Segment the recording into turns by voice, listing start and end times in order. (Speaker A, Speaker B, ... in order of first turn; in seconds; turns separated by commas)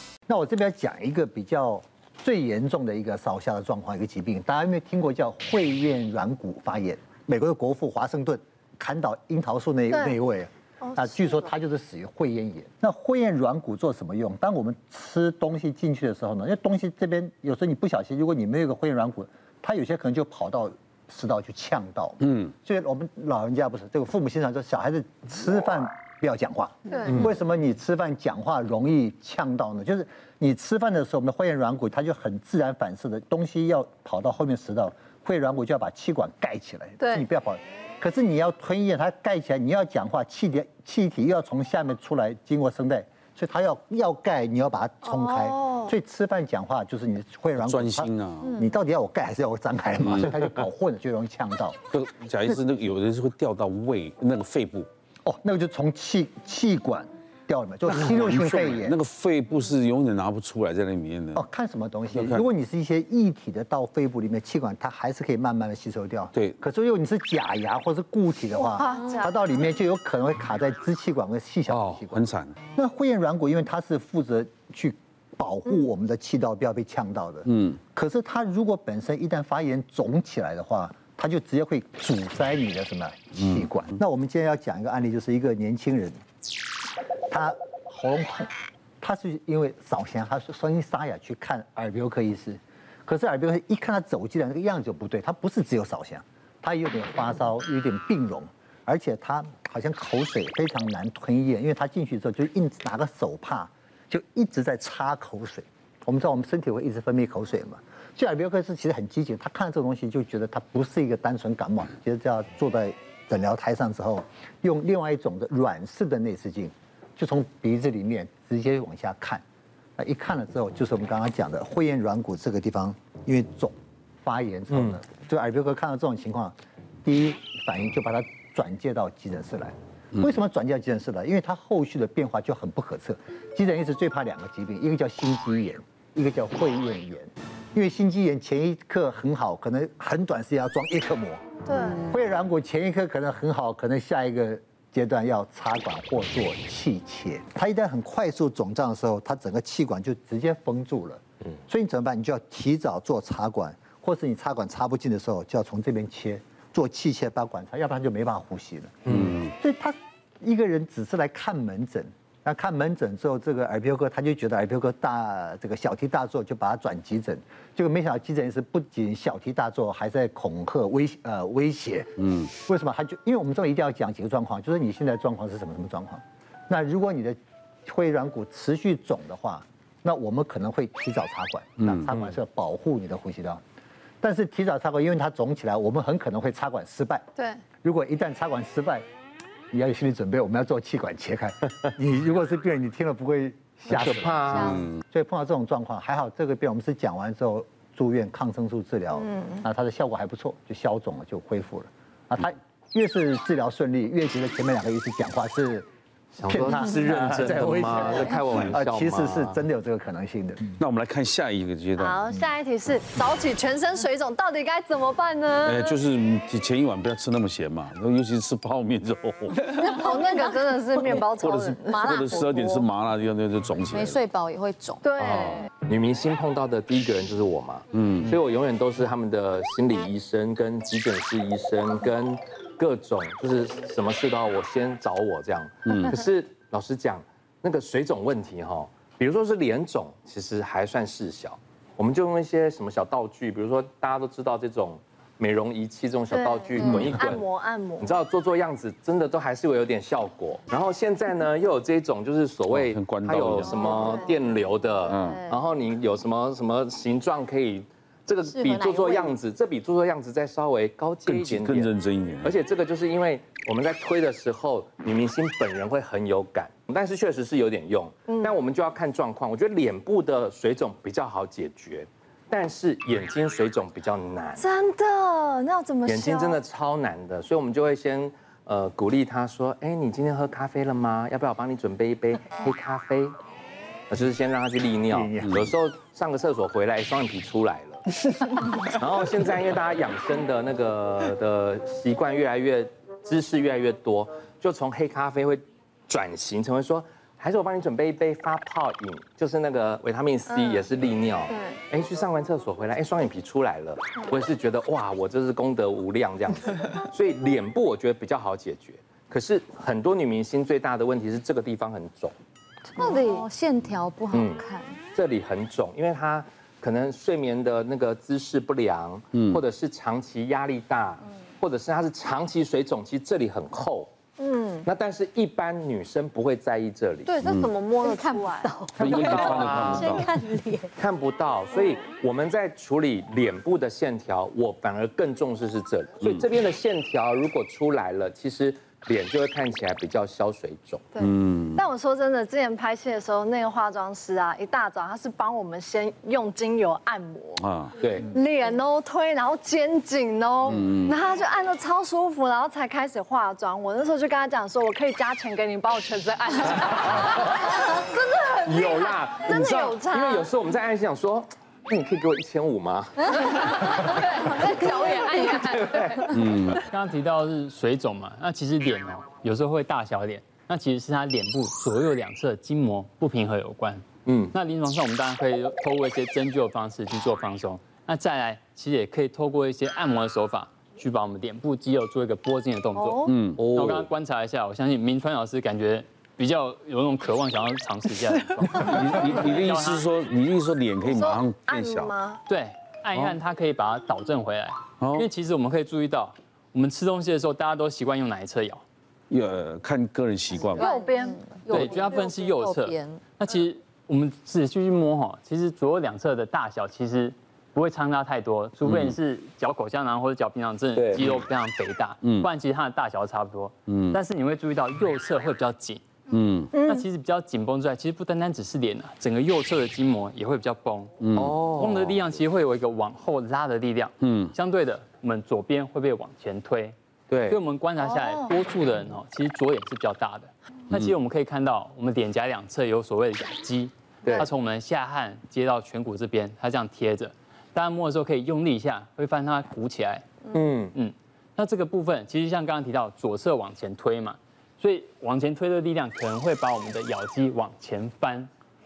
Speaker A: 0.3-51.8, Speaker B: 9.9-10.2, Speaker B: 10.8-11.5, Speaker B: 26.9-27.3, Speaker B: 45.1-45.9, Speaker C: 47.6-48.5, Speaker D: 48.4-48.7, Speaker C: 51.9-54.9, Speaker A: 55.3-59.0, Speaker C: 58.0-61.4, Speaker A: 61.4-86.2, Speaker C: 62.1-62.4, Speaker B: 68.5-69.4, Speaker C: 72.1-72.5, Speaker A: 87.3-119.4, Speaker A: 120.0-141.4, Speaker E: 124.7-125.0, Speaker B: 141.7-142.1, Speaker A: 142.0-183.6, Speaker E: 159.1-159.3, Speaker C: 172.2-172.5, Speaker A: 184.2-187.2, Speaker B: 187.4-187.6, Speaker A: 187.8-189.1, Speaker A: 189.7-205.9, Speaker E: 193.9-194.9, Speaker D: 194.5-194.9, Speaker B: 199.3-199.6, Speaker E: 206.3-209.6, Speaker A: 206.5-210.7, Speaker C: 210.8-212.2, Speaker B: 212.0-216.0, Speaker C: 215.7-220.1, Speaker B: 219.8-222.9, Speaker C: 221.4-224.2, Speaker D: 221.9-222.4, Speaker D: 223.8-225.1, Speaker B: 225.0-225.7, Speaker E: 225.2-247.5, Speaker C: 227.9-228.4, Speaker C: 235.9-236.2, Speaker B: 246.3-248.2, Speaker E: 248.0-261.9, Speaker C: 252.7-253.9, Speaker D: 253.7-254.3, Speaker B: 253.8-254.3, Speaker C: 255.0-255.4, Speaker D: 255.1-255.6, Speaker D: 258.4-259.4, Speaker C: 261.3-262.6, Speaker E: 262.4-274.6, Speaker B: 268.3-268.6, Speaker B: 274.6-276.6, Speaker E: 276.1-283.4, Speaker E: 284.1-288.0, Speaker A: 285.1-285.7, Speaker E: 288.6-312.4, Speaker B: 300.5-300.9, Speaker B: 301.5-301.8, Speaker B: 313.0-313.4, Speaker D: 313.0-315.0, Speaker E: 314.3-324.1, Speaker C: 319.3-319.6, Speaker B: 324.4-324.9, Speaker E: 324.9-327.4, Speaker B: 327.3-328.8, Speaker C: 327.4-327.7, Speaker D: 328.0-330.9, Speaker E: 328.9-330.3, Speaker C: 329.0-330.3, Speaker E: 331.0-341.1, Speaker B: 341.1-347.7, Speaker C: 341.2-341.9, Speaker C: 347.6-347.9, Speaker E: 348.0-348.3, Speaker B: 348.2-360.5, Speaker C: 350.7-351.2, Speaker E: 358.6-364.6, Speaker B: 363.3-366.4, Speaker E: 365.7-366.2, Speaker C: 366.3-366.8, Speaker F: 366.8-390.1, Speaker E: 374.3-374.5, Speaker B: 383.0-383.4, Speaker C: 383.2-383.6, Speaker E: 383.6-384.1, Speaker C: 388.7-392.1, Speaker B: 391.0-392.4, Speaker F: 392.5-398.8, Speaker C: 395.0-395.3, Speaker C: 399.3-400.9, Speaker B: 400.8-402.2, Speaker D: 400.8-403.2, Speaker F: 401.7-416.0, Speaker C: 408.8-409.2, Speaker E: 410.9-411.4, Speaker C: 412.2-412.5, Speaker C: 413.9-414.2, Speaker C: 416.3-416.7, Speaker B: 416.7-417.0, Speaker F: 416.9-421.1, Speaker C: 421.2-421.6, Speaker E: 421.4-422.1, Speaker F: 421.7-427.0, Speaker C: 424.2-424.5, Speaker E: 427.3-427.6, Speaker F: 427.5-440.3, Speaker B: 428.0-428.5, Speaker E: 440.5-440.9, Speaker F: 440.9-448.5